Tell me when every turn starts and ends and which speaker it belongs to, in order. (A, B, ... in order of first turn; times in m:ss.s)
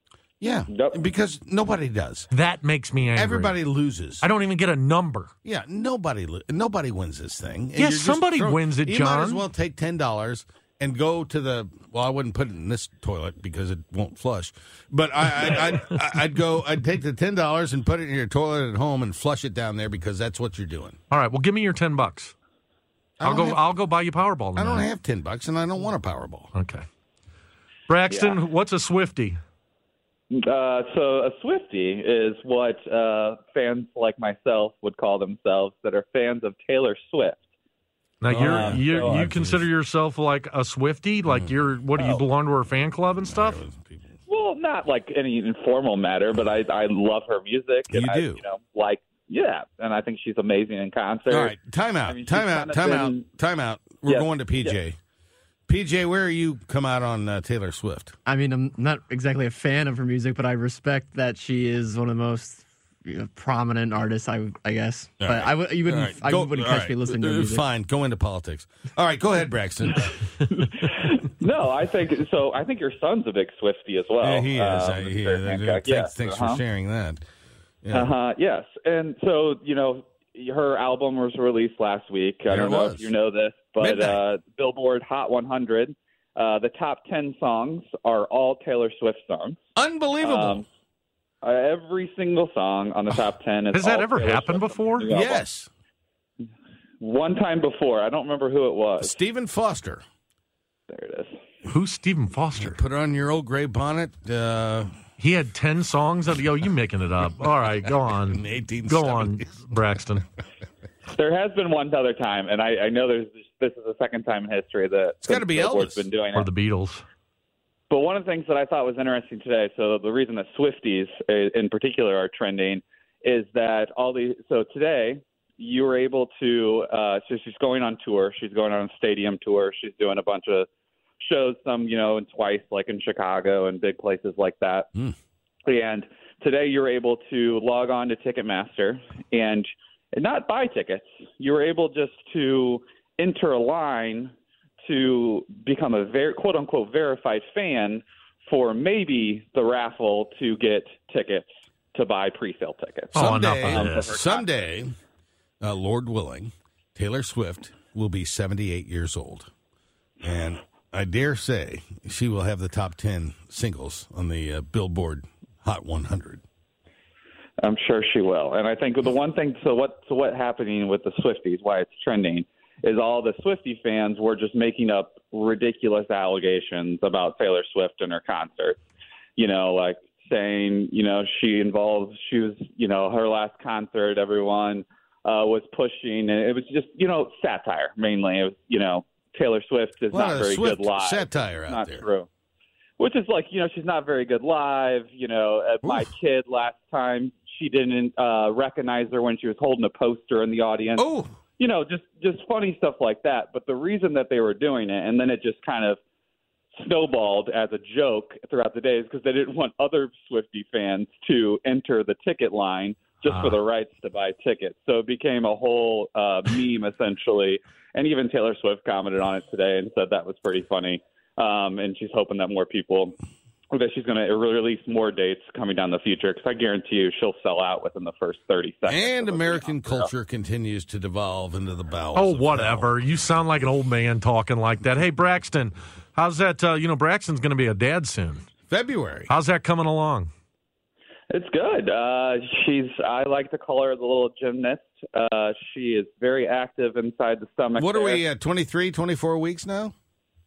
0:00.4-0:02.3 A
0:00.7-0:01.0 B
0:02.3-0:03.6 C
0:03.1-0:04.2 A
0:04.2-0:05.3 C
0:05.4-0:21.0 A
0:07.8-0:09.4 C
0:21.1-0:22.3 C
0:23.2-0:23.6 A
0:23.2-0:24.9 C
0:24.6-0:26.5 A
0:26.5-0:26.8 C
0:27.9-0:29.4 C
0:28.1-0:28.4 B
0:30.3-0:37.4 B
0:38.2-0:43.6 C
0:38.3-0:39.7 A
0:38.4-0:39.3 B
0:41.3-0:41.6 A
0:43.2-0:44.2 A
0:44.3-0:51.5 B
0:47.9-0:48.4 A
0:51.3-0:55.0 A
0:52.1-0:53.3 B
0:54.0-0:54.7 B
0:55.7-0:58.2 A
0:58.2-1:07.6 D
1:05.2-1:10.1 A
1:10.5-1:16.6 B
1:14.2-1:17.2 A
1:17.8-1:18.1 A
1:17.9-1:29.6 B
1:22.5-1:23.1 A
1:23.8-1:24.2 A
1:29.8-1:30.6 A
1:30.2-1:30.6 B
1:31.4-1:35.4 B
1:33.7-1:35.1 C
1:35.1-1:35.7 A
1:37.0-1:39.1 B
1:39.0-1:40.0 A
1:40.9-1:41.3 B
1:41.6-1:42.8 C
1:42.6-1:45.0 A
1:45.2-1:50.2 C
1:48.3-1:49.7 A
1:51.2-1:56.5 B
1:55.2-1:56.0 A
1:56.3-1:57.0 C
1:57.9-2:10.7 B
2:11.2-2:14.9 B
2:15.6-2:24.3 B
2:24.8-2:34.4 B
2:33.1-2:34.9 A
2:33.1-2:34.1 C
2:35.6-2:39.5 A
2:40.2-2:46.4 A
2:47.6-2:58.8 B
2:59.4-3:12.3 B
3:10.1-3:12.0 A
3:13.0-3:21.1 B
3:21.0-3:21.3 A
3:21.6-3:26.0 B
3:26.7-3:43.2 B
3:33.3-3:33.5 C
3:43.7-3:50.1 B
3:48.9-3:52.9 A
3:52.1-3:58.5 C
3:58.7-3:59.3 A
3:59.3-4:00.3 C
4:01.3-4:08.2 B
4:07.8-4:09.9 A